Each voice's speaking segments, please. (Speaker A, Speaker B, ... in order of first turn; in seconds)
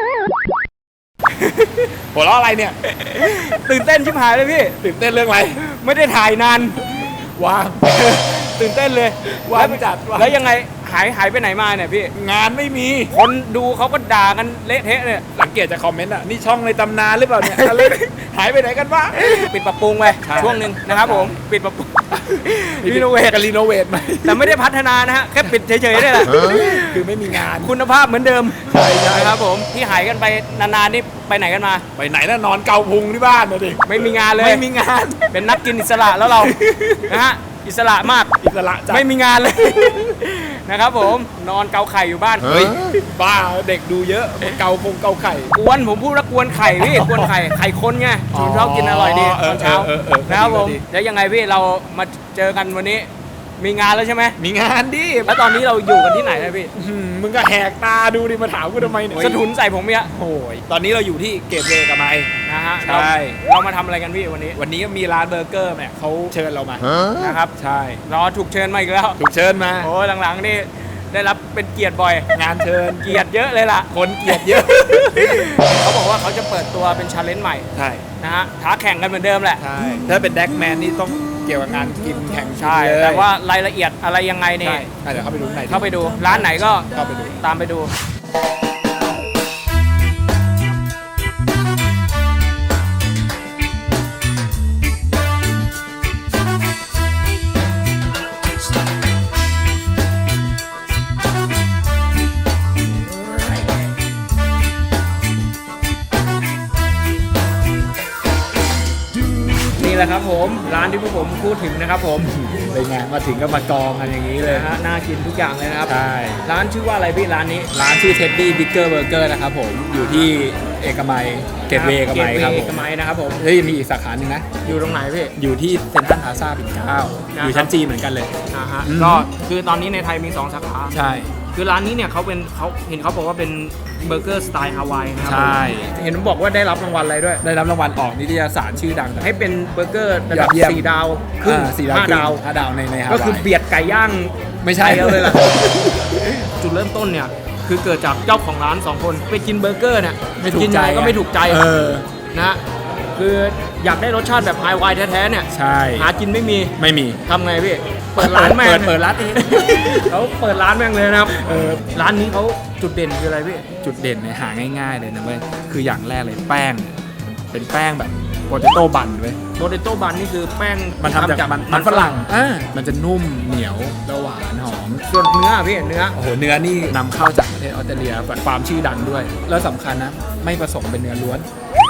Speaker A: 1.4-1.9, 2.8-4.8, 5.6-7.1, 8.2-12.1, 13.1-15.2, 17.4-18.0, 19.1-23.4, 24.2-31.9, 33.9-34.6, 35.3-36.5, 37.1-38.3, 38.9-42.8, 45.5-54.4, 55.2-56.7, 59.1-60.1, 62.4-64.6, 67.1-67.5, 68.0-69.2, 69.8-72.3, 73.0-77.7, 78.2-79.6, 82.6-84.9, 85.7-86.9, 87.4-87.9, 109.6-112.3, 114.4-117.7, 119.9-120.3, 121.7-123.4, 124.6-125.3, 127.3-127.7, 128.5-130.9, 131.5-137.4, 139.2-142.4, 143.1-145.4, 146.1-151.6, 152.3-152.6, 153.1-156.7, 157.2-161.4, 161.9-163.7, 169.6-172.2, 175.1-176.1
Speaker B: 2.1-2.8, 4.8-5.6, 6.9-8.5, 9.3-10.4, 12.1-13.1, 15.3-19.4, 20.2-21.4, 22.1-24.6, 25.4-27.8, 28.6-29.4, 31.9-35.4, 36.0-37.2, 38.4-39.0, 42.4-45.5, 46.8-47.3, 48.3-50.8, 54.4-55.4, 56.7-59.4, 60.0-62.3, 62.8-63.4, 64.5-67.0, 67.5-68.0, 69.2-69.9, 72.3-73.2, 73.9-75.6, 77.7-78.0, 79.6-83.3, 84.6-87.4, 112.2-114.7, 115.8-116.4, 117.7-122.8, 123.4-124.5, 125.3-128.3, 128.8-129.3, 130.9-131.3, 135.2-135.9, 137.4-139.3, 140.3-140.9, 141.4-143.5, 144.6-146.2, 150.4-152.1, 155.5-156.1, 156.8-157.2, 158.2-160.1, 161.3-162.0, 163.8-166.9, 167.5-169.4, 171.0-175.0, 176.1-181.5